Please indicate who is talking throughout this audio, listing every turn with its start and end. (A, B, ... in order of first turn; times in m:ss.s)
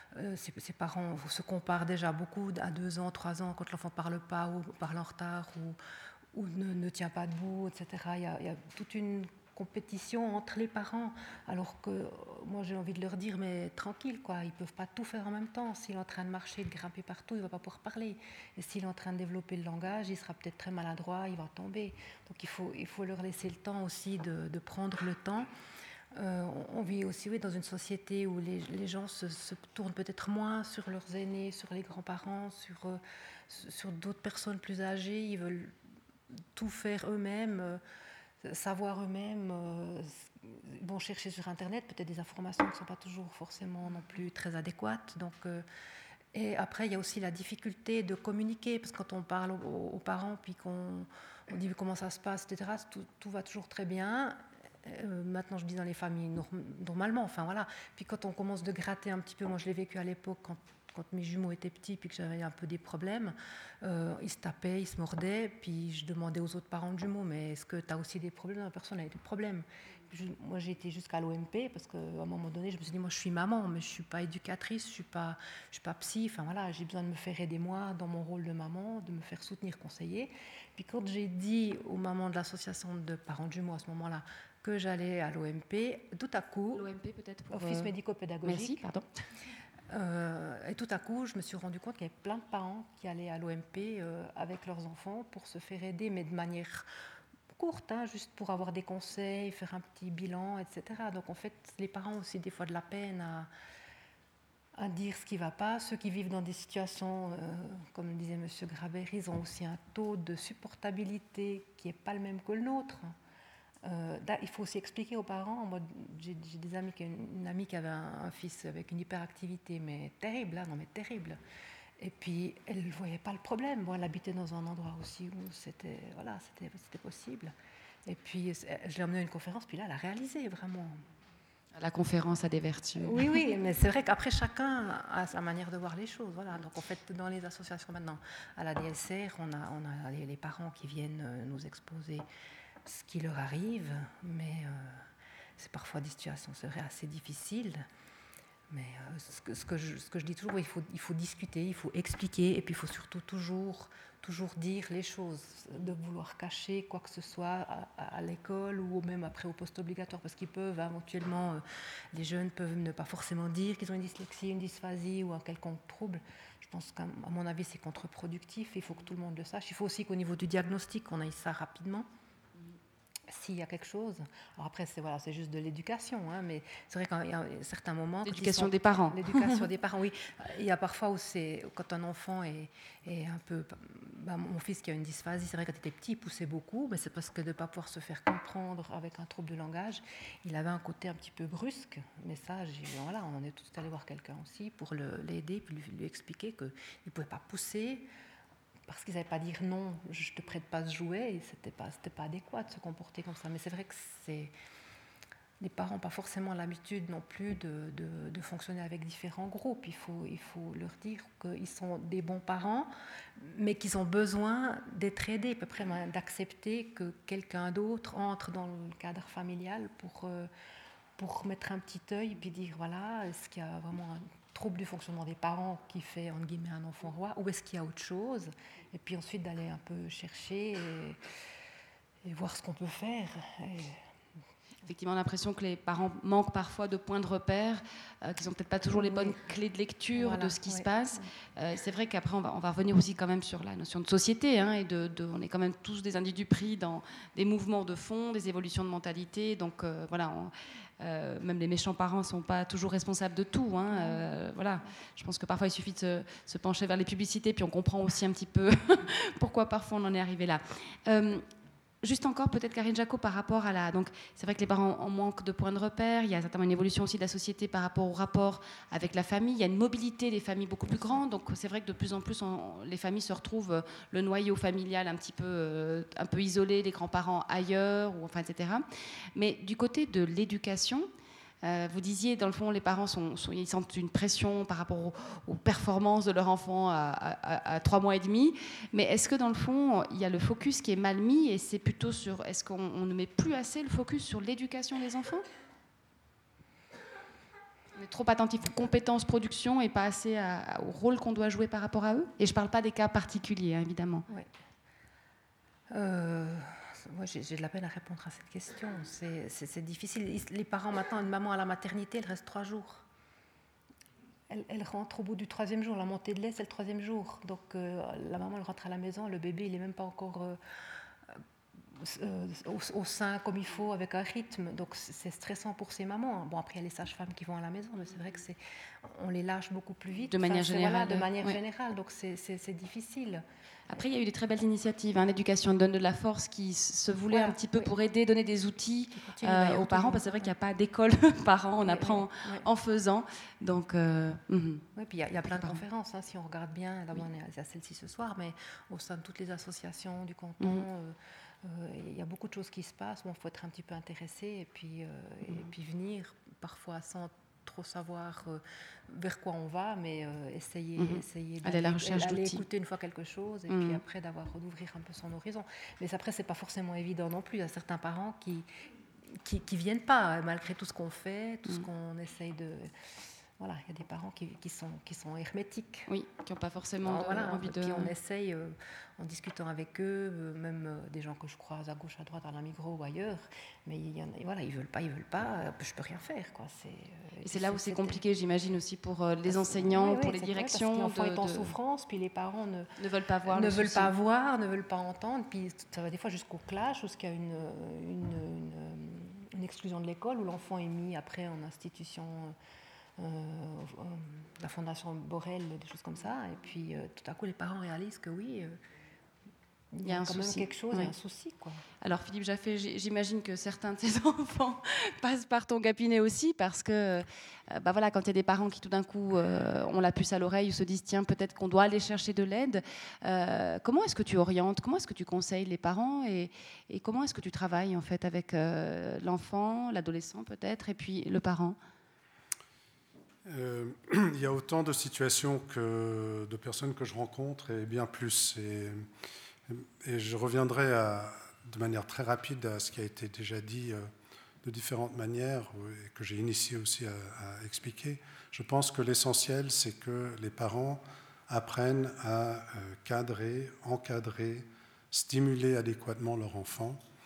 0:00.1-0:05.8 A
0:06.3-0:25.5 A
0:26.2-0:35.8 A
0:36.5-0:37.8 A
0:38.4-0:45.6 A
0:46.3-1:26.9 A
1:26.7-1:27.9 B
1:27.5-1:29.0 A
1:28.4-1:29.0 B
1:29.9-1:36.9 A
1:37.5-1:43.5 A
1:44.8-1:53.2 A
1:53.8-2:01.4 A
2:02.0-2:07.6 A
2:08.1-2:11.0 A
2:11.8-2:13.3 B
2:13.0-2:22.3 A
2:22.8-2:25.0 A
2:25.6-2:27.9 A
2:28.7-2:52.1 A
2:53.3-3:18.1 A
2:58.3-2:59.6 B
3:18.9-3:24.5 A
3:25.6-3:40.5 A
3:41.2-3:51.2 A
3:52.2-3:54.0 A
3:54.9-4:21.4 B
3:58.9-3:59.5 A
4:00.1-4:01.2 A
4:13.9-4:14.9 A
4:22.0-4:38.8 B
4:39.4-4:41.1 B
4:41.6-4:55.4 B
4:58.0-5:04.3 B
5:05.9-5:13.0 A
5:14.5-5:20.6 A
5:21.9-5:33.4 A
5:30.3-5:31.6 B
5:33.9-5:44.8 B
5:37.3-5:37.9 A
5:39.2-5:40.5 A
5:41.8-5:42.7 A
5:45.0-6:08.7 A
5:45.4-5:45.8 B
6:01.0-6:02.6 B
6:03.7-6:04.0 B
6:09.4-6:12.9 A
6:13.6-6:16.1 A
6:16.1-6:18.1 B
6:17.0-6:28.2 A
6:27.4-6:31.7 B
6:29.5-6:32.9 A
6:33.0-6:34.1 B
6:33.4-6:42.6 A
6:43.2-6:48.8 A
6:49.9-6:51.8 A
6:50.0-6:51.1 B
6:52.0-7:11.8 B
7:13.5-7:19.0 C
7:19.7-7:24.1 C
7:24.6-7:37.0 C